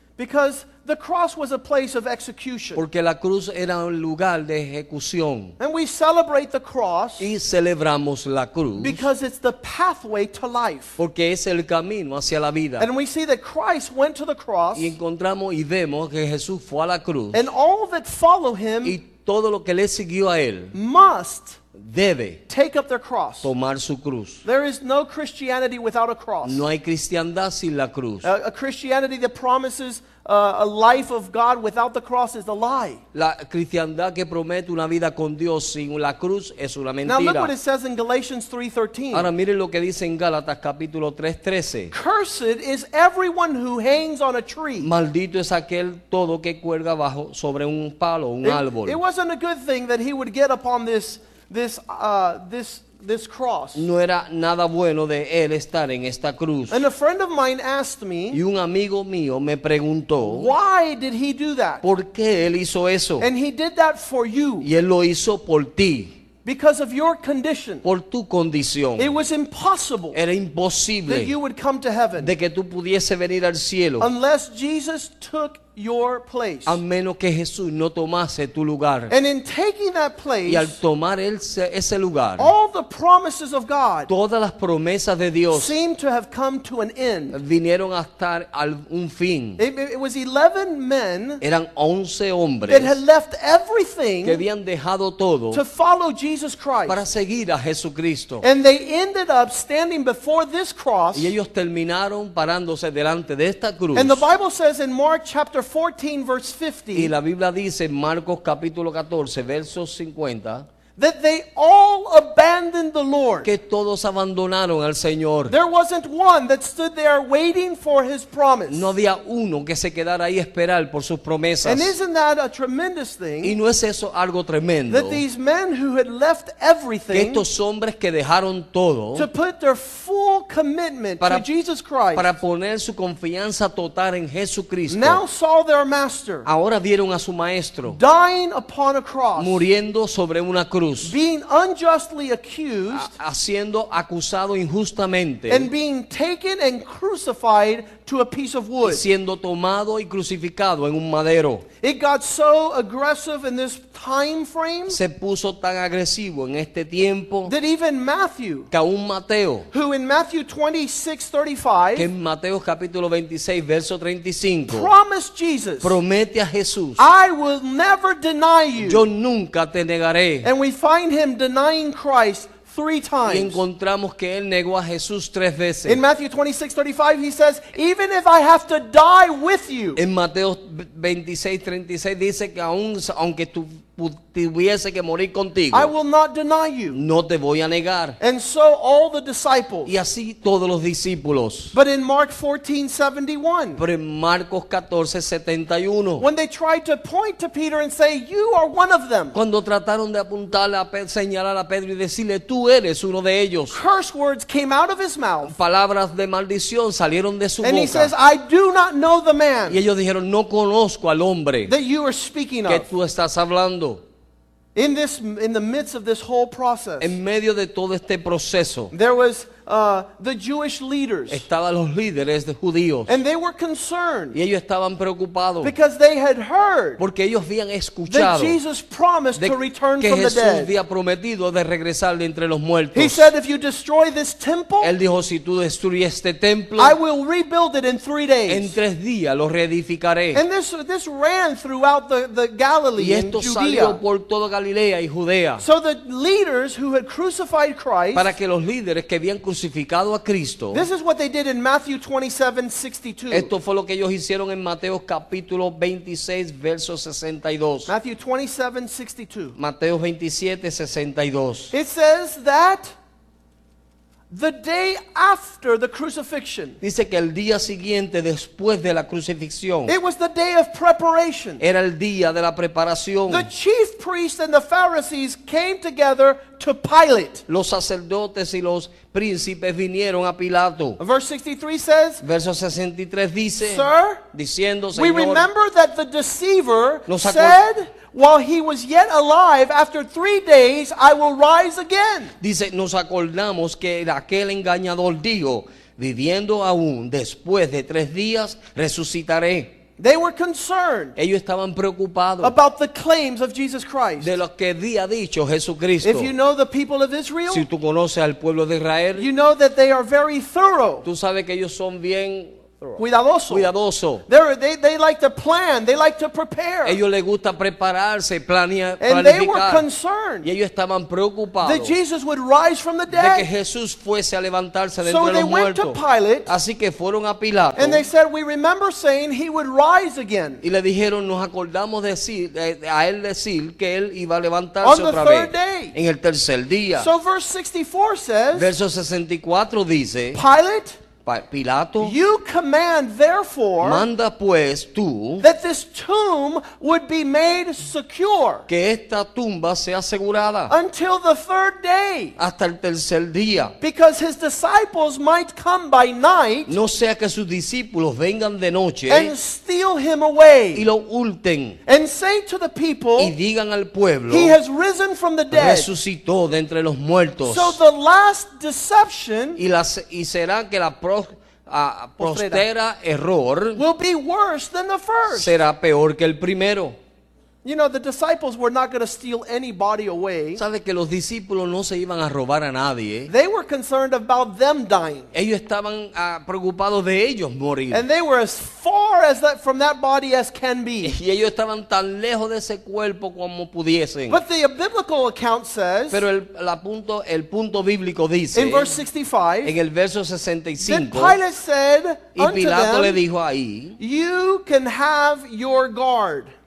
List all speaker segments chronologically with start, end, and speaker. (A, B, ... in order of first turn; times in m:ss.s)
0:00.2-0:02.8 A
0:02.8-0:05.6 B
0:05.6-0:07.3 A
0:07.2-0:09.0 B
0:08.8-0:11.0 A
0:11.0-0:12.9 B
0:12.8-0:14.9 A
0:14.7-0:17.4 B
0:17.3-0:19.0 A
0:18.8-0:20.7 B
0:20.7-0:21.6 A
0:21.8-0:22.4 B
0:22.5-0:23.5 A
0:23.4-0:24.4 B
0:24.4-0:26.6 A
0:26.4-0:28.3 B
0:28.2-0:33.0 A
0:33.1-0:37.5 B
0:37.0-0:39.3 A
0:39.1-0:41.9 B
0:41.9-0:44.9 A
0:44.8-0:49.0 B
0:48.4-0:53.9 A
0:53.8-0:56.8 B
0:56.7-0:58.4 A
0:58.3-1:00.5 B
1:00.2-1:01.8 A
1:01.8-1:03.3 B
1:03.2-1:04.7 A
1:04.6-1:06.1 B
1:06.4-1:07.8 A
1:07.8-1:09.2 B
1:09.0-1:10.2 A
1:10.1-1:11.3 B
1:11.0-1:12.3 A
1:12.2-1:14.1 B
1:14.0-1:16.8 A
1:16.6-1:19.1 B
1:19.1-1:20.8 A
1:20.4-1:22.5 B
1:22.4-1:24.1 A
1:24.1-1:25.8 B
1:25.5-1:27.4 A
1:27.3-1:29.6 B
1:29.6-1:31.4 A
1:31.4-1:33.0 B
1:32.6-1:34.4 A
1:34.2-1:35.6 B
1:35.5-1:37.0 A
1:36.9-1:38.4 B
1:38.4-1:41.3 A
1:41.1-1:44.2 B
1:43.9-1:47.1 A
1:46.9-1:50.6 B
1:51.0-1:53.5 A
1:53.4-1:55.5 B
1:55.5-1:58.9 A
1:58.7-2:01.9 B
2:01.6-2:03.6 A
2:03.4-2:05.2 B
2:04.9-2:07.4 A
2:07.1-2:09.3 B
2:09.1-2:12.3 A
2:11.2-2:11.4 B
2:12.1-2:15.2 B
2:14.9-2:16.5 A
2:16.4-2:18.0 B
2:17.9-2:19.6 A
2:19.4-2:21.1 B
2:21.0-2:23.1 A
2:22.9-2:25.7 B
2:25.5-2:29.0 A
2:28.8-2:31.6 B
2:31.8-2:35.0 A
2:34.9-2:37.5 B
2:37.4-2:38.7 A
2:38.7-2:39.7 B
2:39.7-2:42.1 A
2:41.9-2:44.9 B
2:44.7-2:46.0 A
2:45.8-2:47.0 B
2:47.0-2:49.0 A
2:48.8-2:50.5 B
2:50.4-2:53.6 A
2:53.2-2:56.0 B
2:55.8-3:00.0 A
3:00.0-3:05.9 B
3:05.7-3:07.0 A
3:06.9-3:08.2 B
3:08.2-3:09.9 A
3:09.8-3:11.7 B
3:11.7-3:13.8 A
3:13.8-3:16.2 B
3:16.2-3:19.4 A
3:19.3-3:23.8 B
3:23.7-3:25.5 A
3:25.4-3:28.1 B
3:27.6-3:29.8 A
3:29.7-3:31.7 B
3:31.6-3:32.9 A
3:32.7-3:34.0 B
3:34.7-3:37.2 A
3:37.0-3:38.9 B
3:38.9-3:41.4 A
3:41.3-3:43.2 B
3:43.1-3:44.4 A
3:44.3-3:45.7 B
3:45.6-3:47.0 A
3:47.0-3:48.6 B
3:48.1-3:50.7 A
3:49.4-3:53.3 B
3:52.9-3:54.9 A
3:54.8-3:57.0 B
3:56.8-3:58.8 A
3:58.5-4:00.4 B
4:00.3-4:04.0 A
4:03.0-4:05.6 B
4:05.6-4:08.3 A
4:08.1-4:10.8 B
4:10.7-4:13.5 A
4:13.3-4:17.9 B
4:17.9-4:19.5 A
4:19.6-4:21.7 B
4:21.7-4:22.9 A
4:24.3-4:26.8 A
4:26.8-4:29.9 B
4:29.8-4:31.6 A
4:31.6-4:33.5 B
4:33.3-4:37.4 A
4:37.5-4:41.0 B
4:41.0-4:42.2 A
4:42.2-4:45.5 B
4:43.6-4:44.2 A
4:44.9-4:52.3 A
4:47.1-4:47.6 B
4:52.4-4:59.7 B
5:00.0-5:01.2 A
5:01.2-5:02.6 B
5:02.4-5:04.3 A
5:04.2-5:06.3 B
5:06.0-5:07.7 A
5:07.5-5:09.2 B
5:09.1-5:11.0 A
5:11.0-5:14.2 B
5:13.0-5:13.7 A
5:14.3-5:17.0 A
5:16.8-5:19.8 B
5:19.0-5:20.5 A
5:20.4-5:22.0 B
5:21.6-5:23.5 A
5:23.1-5:28.1 B
5:25.0-5:26.5 A
5:27.8-5:30.6 A
5:30.6-5:37.1 B
5:34.8-5:35.9 A
5:37.0-5:38.7 A
5:38.5-5:40.4 B
5:40.3-5:41.0 A
5:41.2-5:42.2 B
5:42.0-5:44.0 A
5:43.8-5:45.4 B
5:45.4-5:48.7 A
5:48.7-5:50.8 B
5:50.7-5:52.4 A
5:52.4-5:53.7 B
5:53.8-5:56.7 A
5:56.7-5:59.3 B
5:59.1-6:00.8 A
6:00.7-6:01.8 B
6:01.9-6:03.3 A
6:03.2-6:04.6 B
6:04.3-6:05.9 A
6:05.5-6:07.8 B
6:07.4-6:09.6 A
6:09.6-6:13.8 B
6:12.2-6:12.6 A
6:13.8-6:15.5 A
6:15.3-6:17.0 B
6:17.6-6:20.6 A
6:20.6-6:23.3 B
6:23.3-6:25.3 A
6:25.3-6:28.0 B
6:27.9-6:31.2 A
6:31.0-6:34.4 B
6:34.3-6:36.2 A
6:36.1-6:39.0 B
6:38.5-6:39.7 A
6:39.6-6:41.4 B
6:40.8-6:43.2 A
6:42.3-6:44.0 B
6:44.0-6:46.5 A